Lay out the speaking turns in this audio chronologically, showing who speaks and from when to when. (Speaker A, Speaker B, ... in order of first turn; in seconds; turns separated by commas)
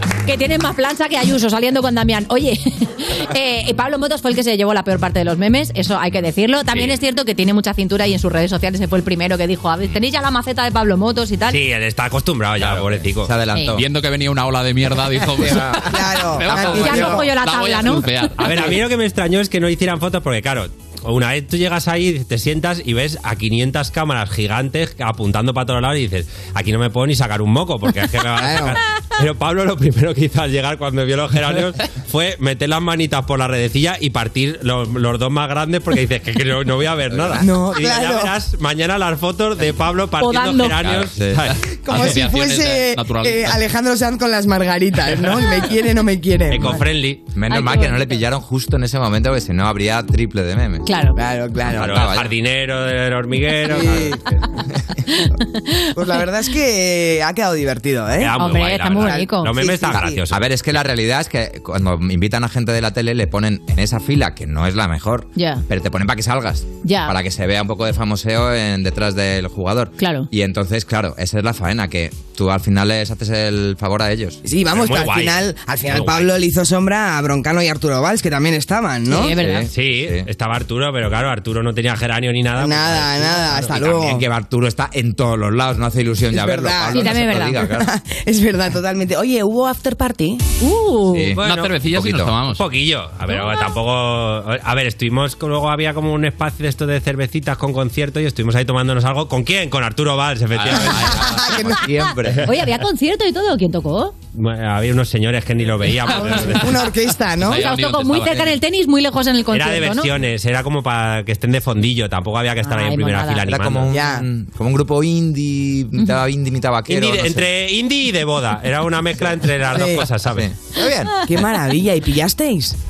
Speaker A: 0.2-11.6, Speaker B: 11.5-13.4, Speaker C: 12.7-13.8, Speaker D: 13.8-18.6, Speaker C: 15.2-15.9, Speaker E: 15.8-17.3, Speaker C: 16.5-17.1, Speaker A: 16.6-18.1, Speaker B: 18.4-41.6, Speaker E: 28.4-28.8, Speaker C: 37.1-37.5, Speaker E: 37.4-38.3, Speaker A: 40.2-40.8, Speaker C: 41.0-41.5, Speaker D: 41.8-43.6, Speaker E: 41.9-46.8, Speaker B: 46.5-47.2, Speaker C: 47.3-50.9, Speaker A: 47.5-48.2, Speaker A: 50.9-51.2, Speaker E: 51.2-52.0, Speaker C: 51.7-52.4, Speaker B: 51.8-54.2, Speaker E: 53.7-54.2, Speaker A: 55.1-56.2, Speaker E: 56.0-58.4, Speaker B: 58.2-60.5, Speaker A: 58.4-59.6, Speaker E: 59.0-60.2, Speaker C: 60.3-74.4, Speaker A: 65.4-65.6, Speaker A: 66.8-67.1, Speaker A: 70.0-70.3, Speaker E: 74.4-79.4, Speaker B: 74.7-76.3, Speaker A: 79.1-79.7, Speaker C: 79.3-80.3, Speaker B: 79.7-83.7, Speaker E: 82.6-84.2, Speaker C: 83.6-87.9, Speaker E: 86.3-90.4, Speaker A: 86.9-87.6, Speaker A: 90.6-91.4, Speaker C: 91.1-92.4, Speaker B: 91.4-91.8, Speaker D: 91.4-92.6, Speaker B: 92.5-101.1, Speaker A: 93.3-93.8, Speaker D: 100.5-101.4, Speaker E: 101.0-101.9, Speaker C: 101.7-102.5, Speaker A: 102.4-104.2, Speaker B: 104.3-106.8, Speaker E: 106.2-107.6, Speaker D: 106.3-106.8, Speaker D: 107.3-108.6, Speaker A: 107.5-110.1, Speaker B: 109.5-113.9, Speaker A: 112.6-113.5, Speaker C: 113.5-117.5, Speaker E: 113.9-114.3, Speaker A: 116.0-116.2, Speaker B: 116.9-120.5, Speaker E: 119.7-120.1, Speaker C: 120.2-121.2, Speaker E: 121.2-122.8